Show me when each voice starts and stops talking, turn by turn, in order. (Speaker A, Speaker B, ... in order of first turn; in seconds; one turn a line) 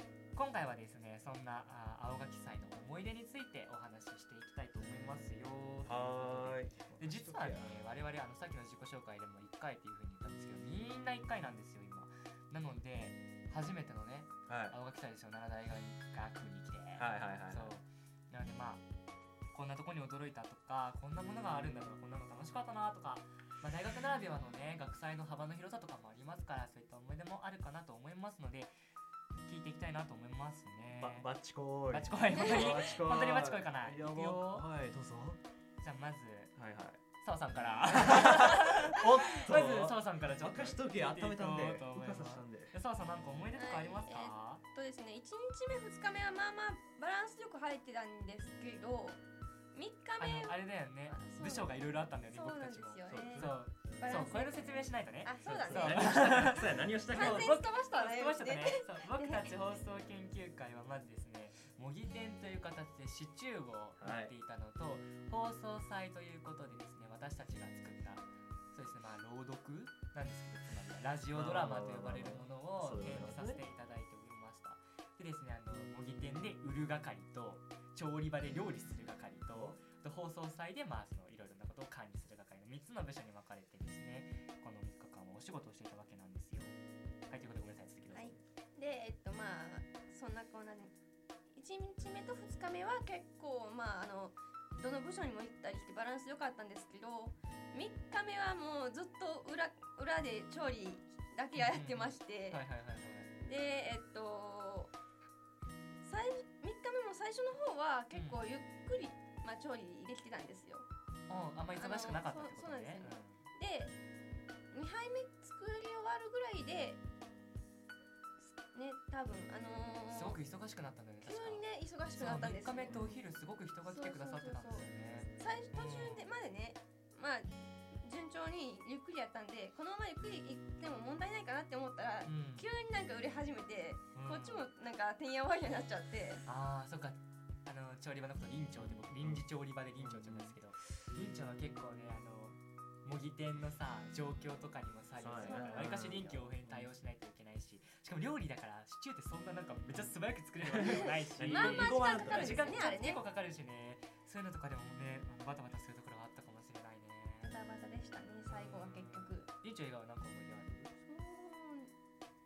Speaker A: 0.3-18.8
Speaker B: 5.8-7.7
Speaker B: 14.5-14.8
Speaker B: 17.0-17.7
Speaker A: 19.5-28.7
Speaker A: 29.5-31.3
Speaker B: 31.0-35.4
Speaker A: 31.9-34.7
Speaker A: 35.8-36.5
Speaker B: 36.6-37.0
Speaker A: 37.2-44.6
Speaker B: 38.0-42.7
Speaker C: 43.5-49.2
Speaker C: 49.7-56.4
Speaker A: 50.2-86.8
Speaker B: 53.1-53.6
Speaker B: 55.4-57.6
Speaker C: 57.1-59.5
Speaker B: 64.0-64.3
Speaker B: 71.3-73.6
Speaker B: 79.5-79.8
Speaker A: 87.3-88.4
Speaker C: 88.1-90.9
Speaker C: 91.5-102.6
Speaker A: 101.6-103.3
Speaker C: 103.4-104.9
Speaker C: 106.0-110.8
Speaker A: 108.1-108.5
Speaker A: 111.3-113.4
Speaker C: 111.8-113.9
Speaker C: 114.7-117.0
Speaker C: 118.7-120.4
Speaker A: 120.1-126.2
Speaker C: 121.2-123.2
Speaker B: 122.8-123.2
Speaker C: 123.8-136.4
Speaker A: 132.2-132.7
Speaker A: 134.1-134.7
Speaker A: 136.4-157.5
Speaker B: 138.8-139.4
Speaker B: 140.0-140.6
Speaker B: 145.2-146.9
Speaker C: 145.4-146.5
Speaker B: 150.9-152.9
Speaker C: 151.5-153.2
Speaker C: 157.4-159.5
Speaker A: 158.5-160.9
Speaker C: 161.1-161.9